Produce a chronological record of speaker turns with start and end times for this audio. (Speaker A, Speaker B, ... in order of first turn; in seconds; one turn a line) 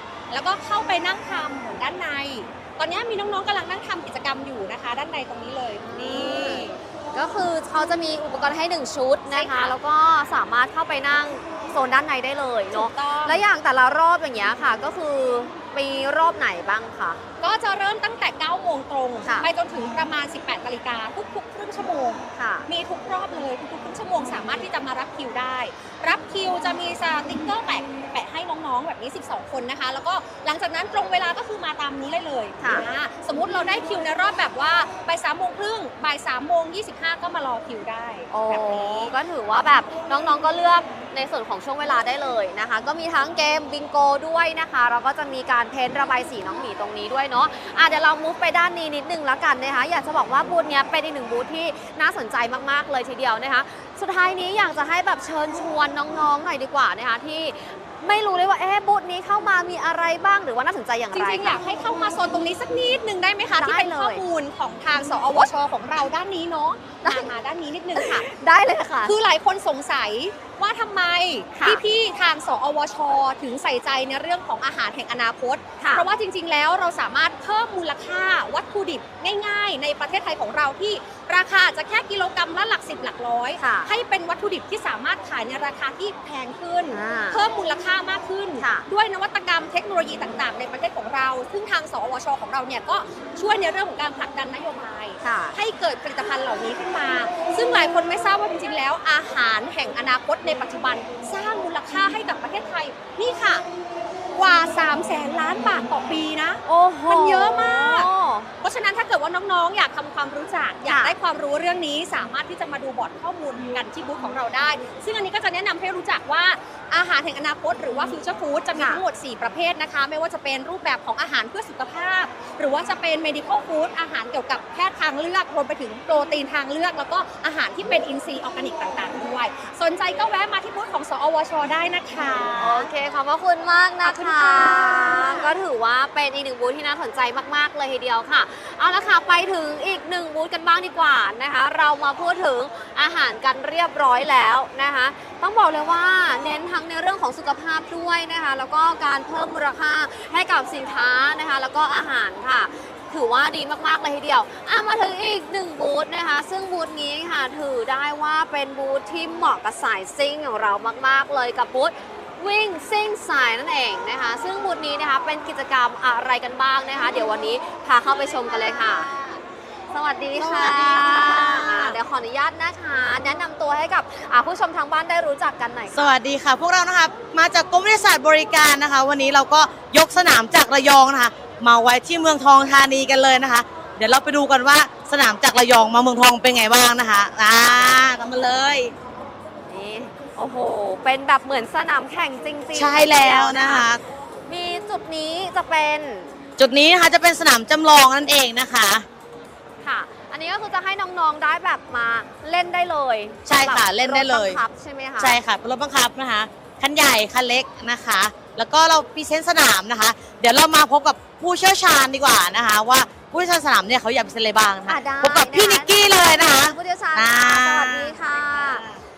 Speaker A: 0.3-6.8
Speaker B: 5.8-17.2
Speaker A: 9.3-9.8
Speaker A: 12.7-13.4
Speaker A: 17.4-39.1
Speaker B: 22.4-22.7
Speaker B: 32.6-32.9
Speaker B: 38.3-61.6
Speaker A: 61.1-68.3
Speaker B: 63.5-64.2
Speaker B: 67.0-67.3
Speaker B: 68.0-69.1
Speaker A: 69.0-103.6
Speaker B: 71.5-71.8
Speaker B: 75.8-76.1
Speaker B: 83.6-83.9
Speaker B: 86.9-87.4
Speaker B: 88.6-88.8
Speaker B: 95.2-95.5
Speaker A: 104.3-108.1
Speaker B: 106.6-108.5
Speaker A: 108.6-132.9
Speaker B: 110.8-111.1
Speaker B: 118.7-119.0
Speaker B: 132.6-169.2
Speaker A: 134.0-135.5
Speaker B: 169.9-176.1
Speaker C: 170.4-171.3
Speaker A: 170.4-171.9
Speaker C: 175.9-188.9
Speaker B: 189.7-193.8
Speaker C: 192.7-194.0
Speaker B: 194.5-196.3
Speaker C: 196.6-199.0
Speaker B: 199.8-205.4
Speaker C: 203.4-204.6
Speaker C: 205.2-219.0
Speaker B: 214.8-218.8